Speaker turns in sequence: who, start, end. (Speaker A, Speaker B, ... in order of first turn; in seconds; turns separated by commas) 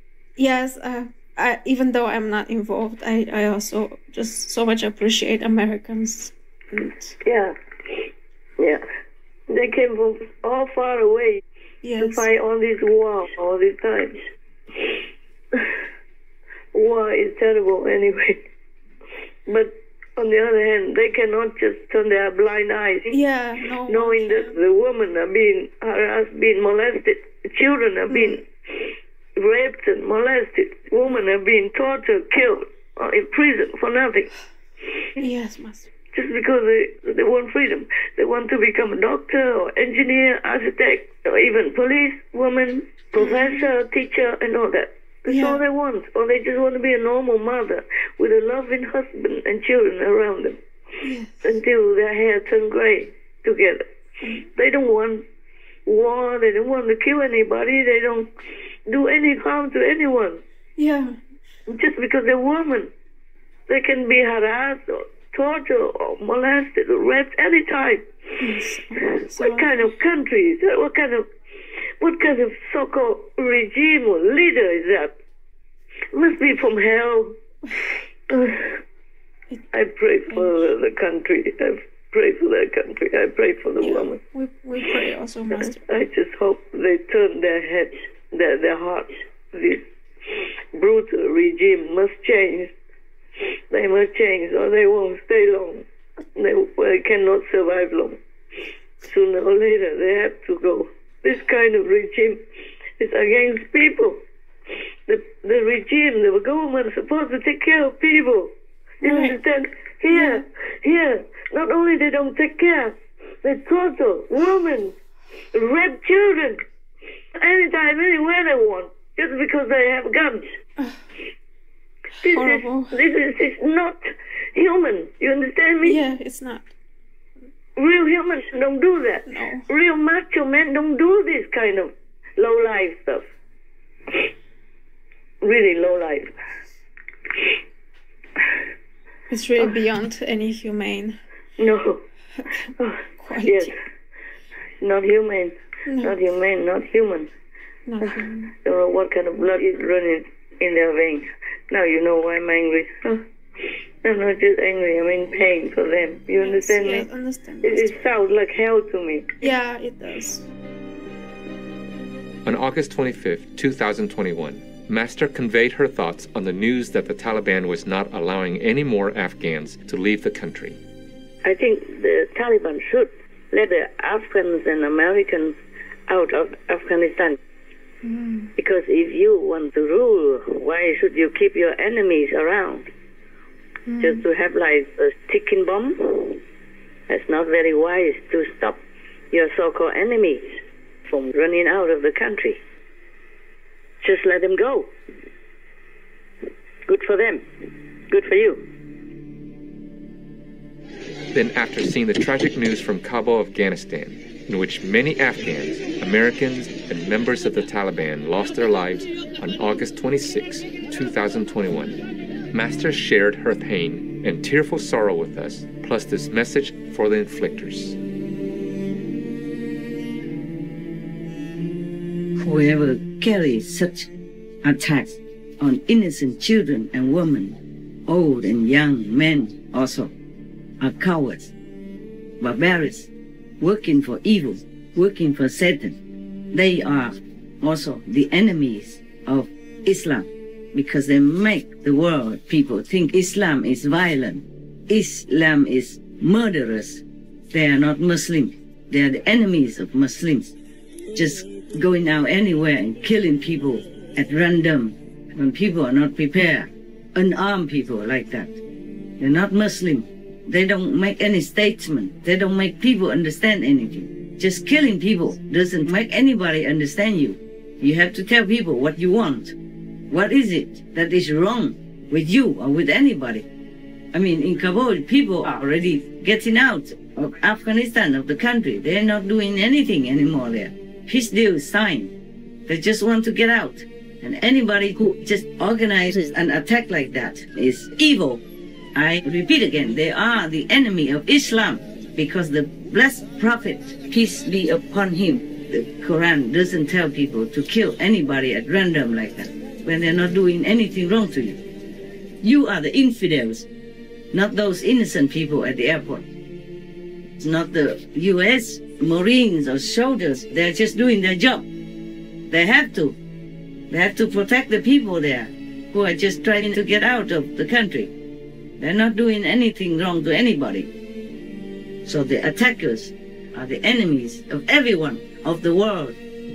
Speaker A: 0.4-7.2, Speaker B: 7.2-7.5, Speaker B: 9.5-11.4, Speaker A: 11.8-12.2, Speaker B: 12.0-14.2, Speaker B: 16.7-18.4, Speaker B: 19.4-23.1, Speaker A: 23.1-24.6, Speaker B: 23.8-34.3, Speaker A: 35.2-35.9, Speaker B: 36.1-50.6, Speaker A: 43.2-43.7, Speaker A: 45.3-45.6, Speaker A: 51.0-51.5, Speaker B: 51.4-53.8, Speaker B: 54.4-55.2, Speaker B: 55.9-58.3, Speaker B: 58.9-60.4, Speaker A: 60.8-61.2, Speaker B: 61.7-62.9, Speaker B: 63.7-68.0, Speaker A: 68.4-69.8, Speaker B: 69.0-71.3, Speaker B: 72.0-75.2, Speaker B: 76.1-77.4, Speaker B: 78.3-78.8, Speaker B: 79.7-84.2, Speaker A: 80.3-80.7, Speaker A: 83.8-85.8, Speaker B: 85.5-92.7, Speaker B: 93.7-98.2, Speaker B: 99.0-102.4, Speaker B: 103.0-104.2, Speaker B: 105.0-114.9, Speaker A: 109.0-109.4, Speaker A: 110.1-110.4, Speaker B: 115.5-116.6, Speaker B: 117.3-120.5, Speaker B: 122.2-126.0, Speaker A: 122.2-123.0, Speaker A: 125.8-126.7, Speaker B: 127.8-133.3, Speaker A: 129.2-129.7, Speaker B: 135.4-136.3, Speaker A: 139.3-141.2, Speaker B: 141.6-142.0, Speaker A: 142.4-143.7, Speaker B: 142.8-143.7, Speaker B: 144.8-147.3, Speaker A: 145.9-146.2, Speaker A: 147.8-148.5, Speaker B: 148.0-153.2, Speaker B: 154.0-157.1, Speaker A: 156.4-158.0, Speaker B: 157.6-159.4, Speaker A: 159.4-160.5, Speaker C: 162.4-170.8, Speaker B: 171.4-175.5, Speaker B: 176.1-177.3, Speaker A: 178.1-178.5, Speaker B: 178.7-182.1, Speaker D: 184.0-184.3, Speaker B: 194.1-194.6, Speaker C: 201.3-212.0, Speaker C: 212.5-217.9, Speaker D: 222.4-224.1, Speaker D: 224.6-230.1, Speaker D: 230.8-231.5, Speaker D: 232.4-233.1, Speaker D: 233.6-236.0, Speaker D: 236.5-250.5, Speaker D: 251.1-258.6, Speaker D: 259.2-269.6, Speaker D: 270.1-273.5, Speaker D: 274.1-282.1, Speaker D: 282.7-288.4, Speaker D: 288.9-301.6, Speaker D: 302.4-303.7, Speaker D: 304.3-306.3, Speaker D: 307.4-311.6, Speaker D: 312.5-313.2, Speaker D: 313.9-318.1, Speaker D: 318.8-320.9, Speaker D: 322.0-326.2